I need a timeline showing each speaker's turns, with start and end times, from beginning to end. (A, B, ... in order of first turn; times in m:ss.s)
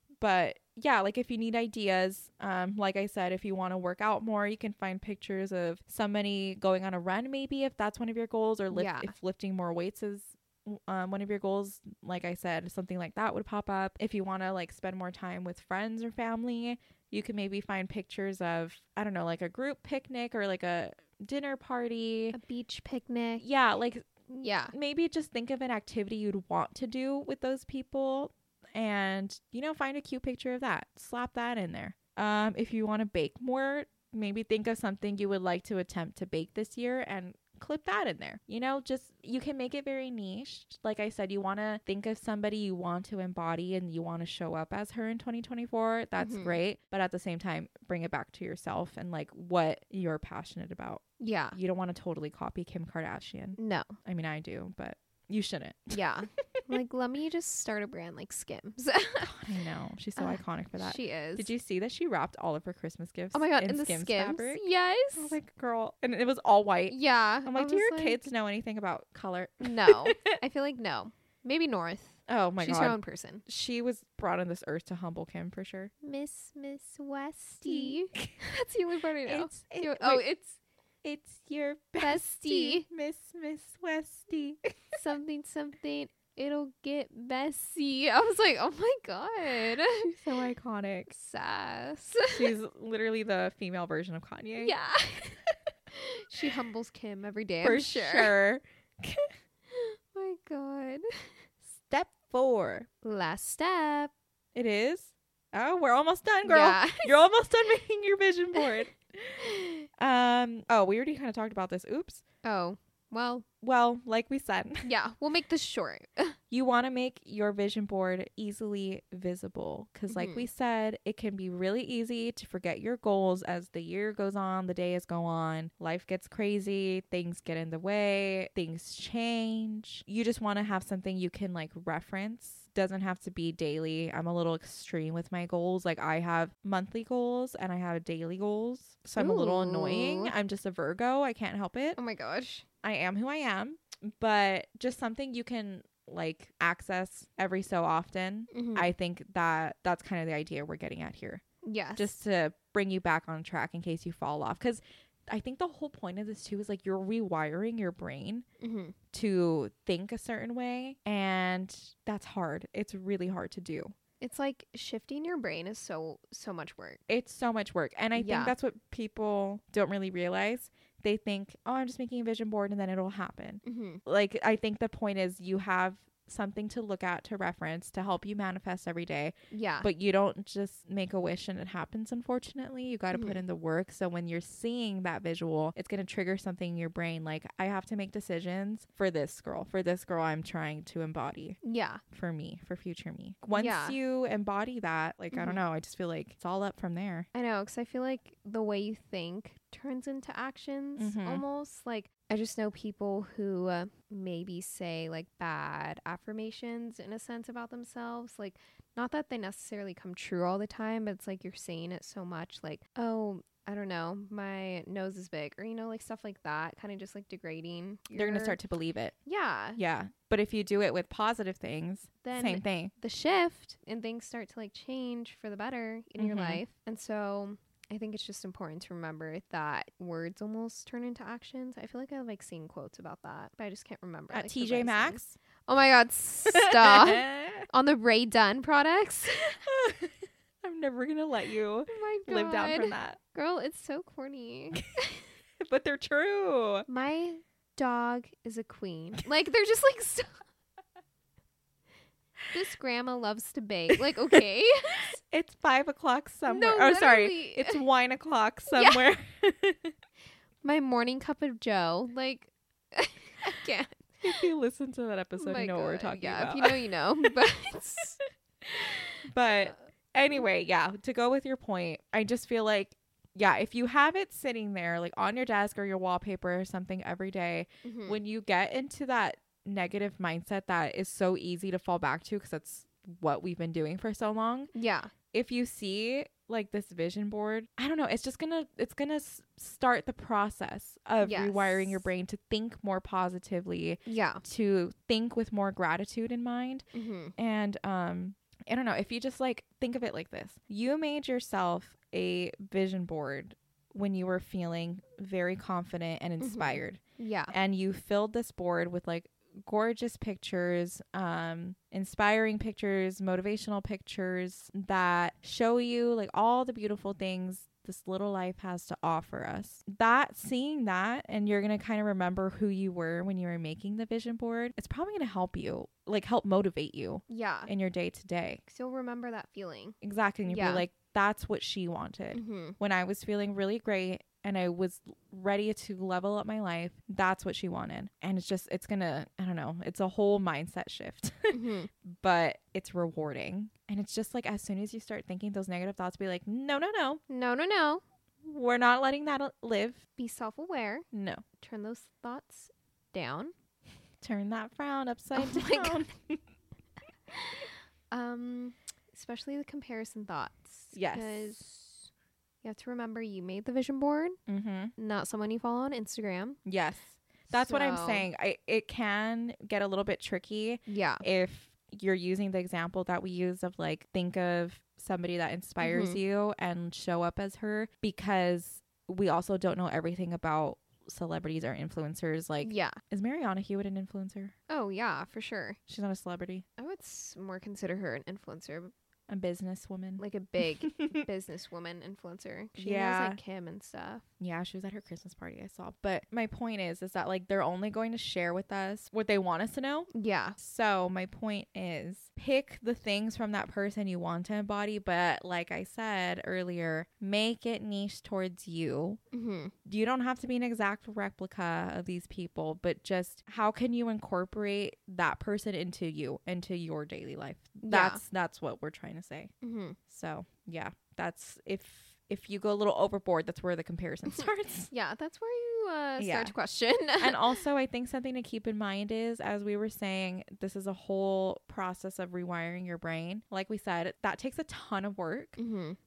0:00.2-0:22.4 A
0:08.7-0:09.1 B
0:22.3-0:23.4 B
0:23.4-0:24.0 A
0:24.3-0:24.8 B
0:24.7-0:56.0 A
0:46.2-0:46.6 B
0:51.2-0:51.6 B
0:53.6-0:54.0 B
0:55.9-0:59.3 B
0:59.2-1:10.4 A
1:00.2-1:01.5 B
1:03.3-1:05.4 B
1:06.9-1:08.3 B
1:09.6-1:13.4 B
1:12.3-1:15.9 A
1:16.0-1:20.6 B
1:17.6-1:18.4 A
1:19.3-1:20.2 A
1:21.0-1:24.6 A
1:22.0-1:22.9 B
1:25.0-1:30.1 B
1:30.0-1:31.1 A
1:31.1-1:32.5 B
1:32.3-1:34.7 A
1:34.6-1:35.4 B
1:35.9-1:38.3 B
1:37.6-1:39.3 A
1:39.7-1:41.3 B
1:41.7-1:42.9 A
1:43.0-1:44.1 B
1:44.6-1:52.2 A
1:46.4-1:47.2 B
1:49.4-1:49.9 B
1:52.4-1:53.5 B
1:53.6-1:54.9 A
1:54.8-1:56.4 B
1:56.5-2:22.0 A
2:00.1-2:00.5 B
2:19.2-2:20.3 B
2:22.0-2:22.6 B
2:22.8-2:31.4 A
2:28.5-2:28.9 B
2:31.6-2:32.2 B
2:32.0-2:38.4 A
2:38.6-2:39.0 B
2:39.1-2:43.9 A
2:44.2-2:47.0 B
2:47.1-3:11.6 A
2:48.2-2:48.5 B
2:53.6-2:54.0 B
2:59.5-2:59.9 B
3:03.1-3:03.4 B
3:11.6-3:12.0 B
3:12.1-3:17.3 A
3:13.5-3:14.0 B
3:15.3-3:15.6 B
3:17.3-3:38.6 B
3:21.0-3:21.4 A
3:38.1-3:39.2 A
3:39.2-3:39.8 B
3:39.8-3:42.9 A
3:42.2-3:59.5 B
3:46.2-3:46.6 A
3:54.3-3:55.4 A
3:56.5-3:57.7 A
3:59.4-4:03.2 A
4:01.9-4:05.3 B
4:05.6-4:06.9 A
4:06.9-4:10.4 B
4:12.5-4:15.2 B
4:15.2-4:19.9 A
4:16.5-4:17.8 B
4:18.7-4:19.0 B
4:20.6-4:24.4 B
4:24.2-4:27.4 A
4:25.4-4:28.2 B
4:28.6-4:44.7 A
4:37.8-4:38.2 B
4:44.7-4:45.1 B
4:45.3-4:56.8 A
4:51.2-4:52.0 B
4:54.1-4:54.4 B
4:56.9-4:57.4 B
4:57.4-5:07.0 A
5:06.4-5:07.6 B
5:07.5-5:28.6 A
5:27.3-5:27.7 B
5:28.7-5:30.9 B
5:30.0-5:47.2 A
5:32.3-5:32.8 B
5:41.5-5:41.9 B
5:47.3-5:48.0 B
5:48.4-5:50.0 A
5:50.2-5:51.1 B
5:51.1-5:51.4 A
5:51.6-5:53.5 B
5:54.2-5:56.4 A
5:55.3-5:56.0 B
5:57.3-6:02.1 B
6:00.9-6:01.6 A
6:02.6-6:04.4 B
6:04.5-6:04.9 A
6:05.0-6:06.6 B
6:06.7-6:24.6 A
6:07.5-6:08.3 B
6:10.9-6:11.2 B
6:15.8-6:16.2 B
6:22.6-6:23.0 B
6:24.7-6:25.8 B
6:25.9-6:26.6 A
6:26.8-6:28.9 B
6:29.3-6:30.2 A
6:30.2-6:34.2 B
6:30.8-6:31.2 A
6:32.8-6:33.4 A
6:34.4-6:49.2 A
6:40.1-6:40.6 B
6:49.3-6:49.7 B
6:49.8-6:59.5 A
6:57.8-6:58.2 B
6:59.6-7:00.0 B
7:00.1-7:04.9 A
7:04.3-7:07.6 B
7:06.2-7:06.6 A
7:07.2-7:15.6 A
7:15.6-7:16.0 B